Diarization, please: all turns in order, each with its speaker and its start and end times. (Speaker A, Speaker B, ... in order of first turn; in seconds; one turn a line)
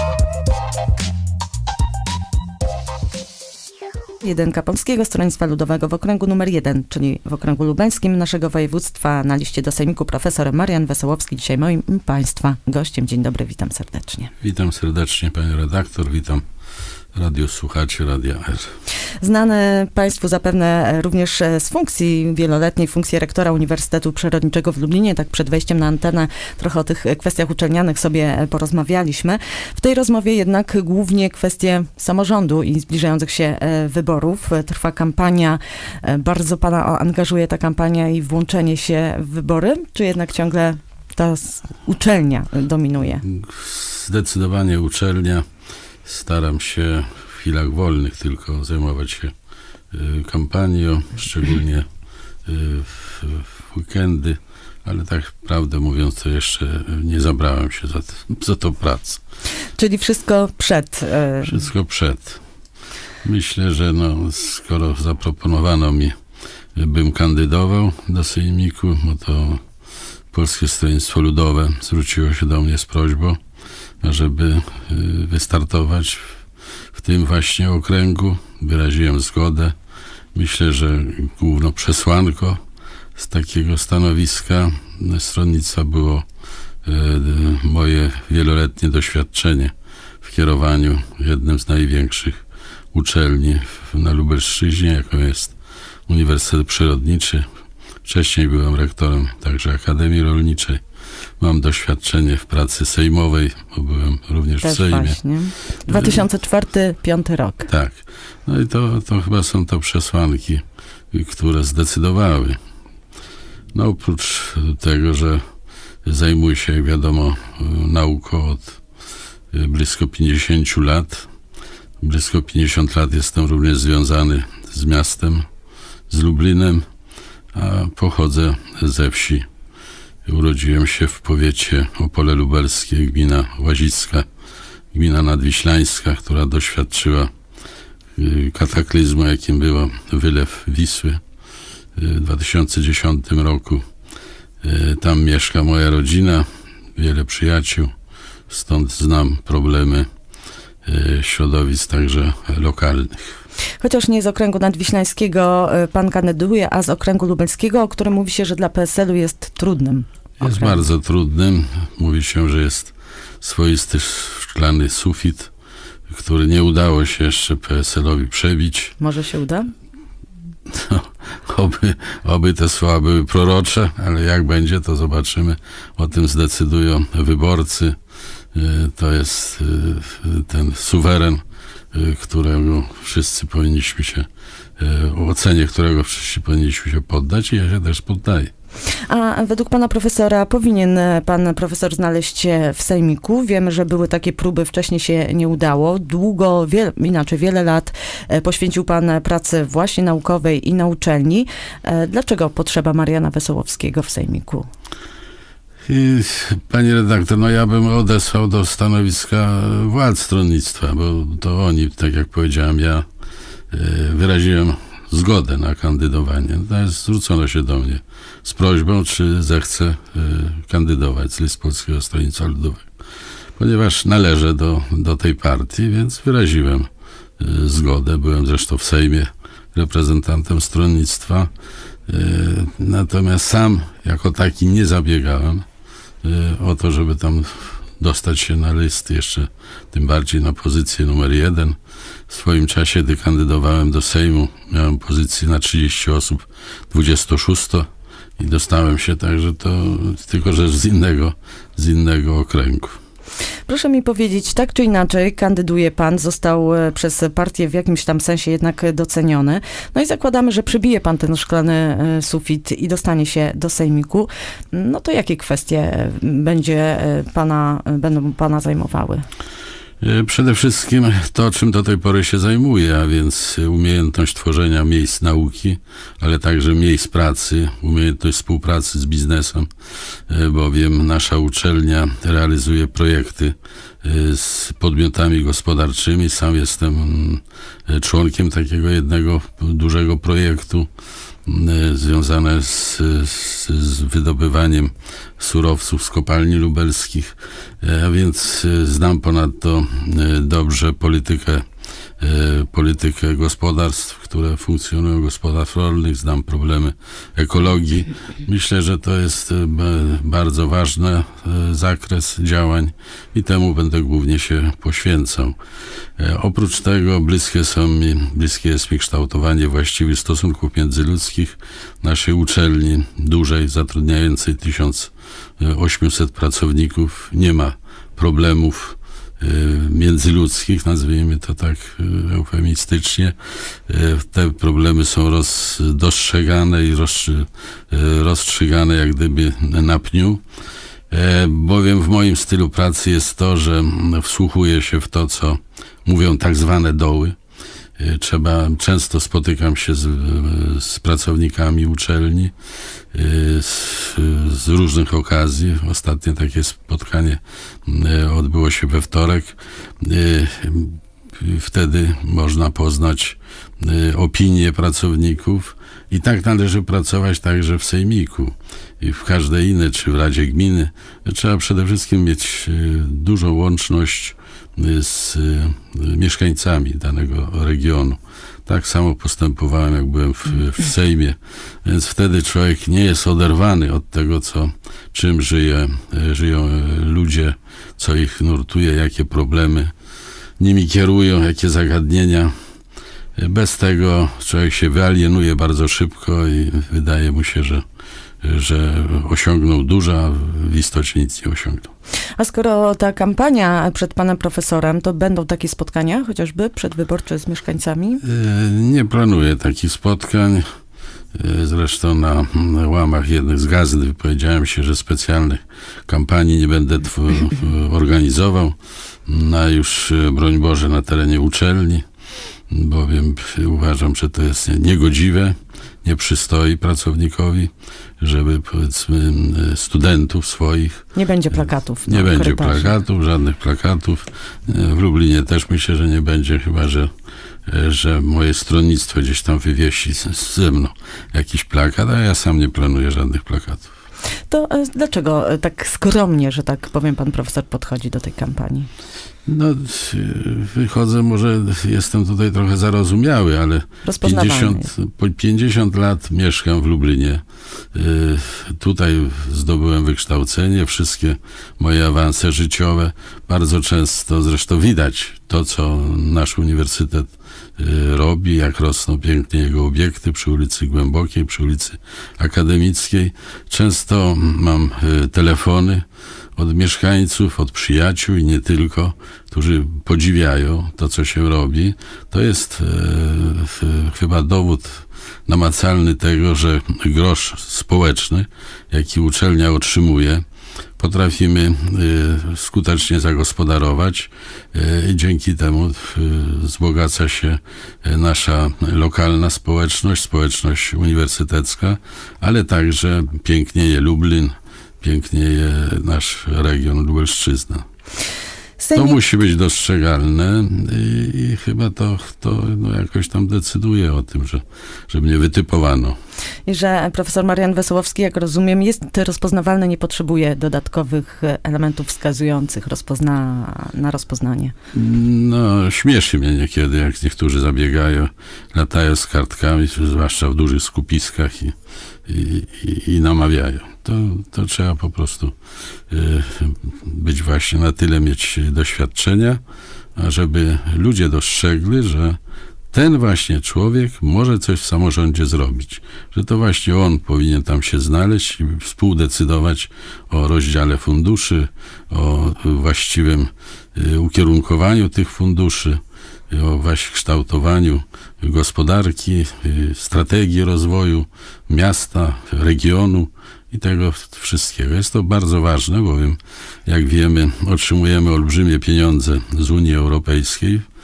Speaker A: 4.2-14.3
Speaker B: 14.4-16.4
Speaker B: 17.1-18.7
Speaker A: 19.2-43.2
Speaker B: 43.2-45.5
Speaker B: 46.0-49.3
Speaker B: 49.9-51.9
Speaker B: 52.5-59.2
Speaker A: 59.8-61.6
Speaker B: 61.4-62.4
Speaker B: 63.2-66.2
Speaker B: 66.8-69.6
Speaker B: 70.3-73.4
Speaker B: 74.0-76.3
Speaker B: 76.9-79.8
Speaker B: 80.3-82.6
Speaker B: 83.2-86.3
Speaker B: 86.8-92.4
Speaker B: 92.9-95.5
Speaker B: 96.1-97.5
Speaker B: 98.0-100.8
Speaker B: 101.4-105.2
Speaker A: 104.6-107.7
Speaker B: 105.9-106.2
Speaker B: 107.7-112.6
Speaker B: 113.7-115.4
Speaker B: 116.1-118.8
Speaker B: 119.5-121.3
Speaker B: 122.0-125.5
Speaker B: 126.1-126.9
Speaker B: 127.5-129.5
Speaker B: 130.3-134.3
Speaker B: 134.9-137.3
Speaker B: 138.2-141.2
Speaker B: 142.0-143.8
Speaker B: 144.6-146.4
Speaker B: 147.0-147.9
Speaker B: 148.5-150.1
Speaker B: 150.8-153.4
Speaker A: 153.8-160.8
Speaker B: 160.4-165.5
Speaker B: 166.1-168.9
Speaker A: 169.0-169.7
Speaker B: 170.7-178.0
Speaker B: 178.5-184.3
Speaker B: 184.8-188.5
Speaker A: 189.1-204.7
Speaker B: 205.9-213.1
Speaker B: 213.7-222.9
Speaker B: 223.6-226.9
Speaker B: 227.4-231.5
Speaker B: 232.1-235.7
Speaker B: 236.2-241.8
Speaker B: 242.3-247.9
Speaker B: 248.4-253.0
Speaker A: 253.7-269.3
Speaker B: 270.0-279.7
Speaker B: 280.3-290.9
Speaker B: 291.5-301.6
Speaker B: 302.2-315.6
Speaker B: 316.2-340.4
Speaker B: 341.1-347.4
Speaker B: 348.0-352.5
Speaker B: 353.1-389.9
Speaker B: 390.6-392.5
Speaker B: 393.4-397.8
Speaker B: 398.4-401.9
Speaker A: 402.4-408.2
Speaker B: 408.2-410.6
Speaker B: 411.4-418.8
Speaker B: 419.3-422.0
Speaker B: 422.7-431.1
Speaker A: 431.1-433.0
Speaker B: 432.1-437.1
Speaker B: 437.7-443.9
Speaker A: 444.5-448.9
Speaker B: 449.5-457.4
Speaker A: 454.0-454.9
Speaker B: 457.9-476.0
Speaker B: 476.6-490.4
Speaker B: 491.0-507.9
Speaker A: 508.8-509.2
Speaker B: 508.9-516.2
Speaker A: 516.7-524.7
Speaker B: 524.9-531.8
Speaker B: 532.3-535.5
Speaker B: 536.1-539.6
Speaker B: 540.2-542.4
Speaker B: 542.9-556.0
Speaker B: 556.5-570.9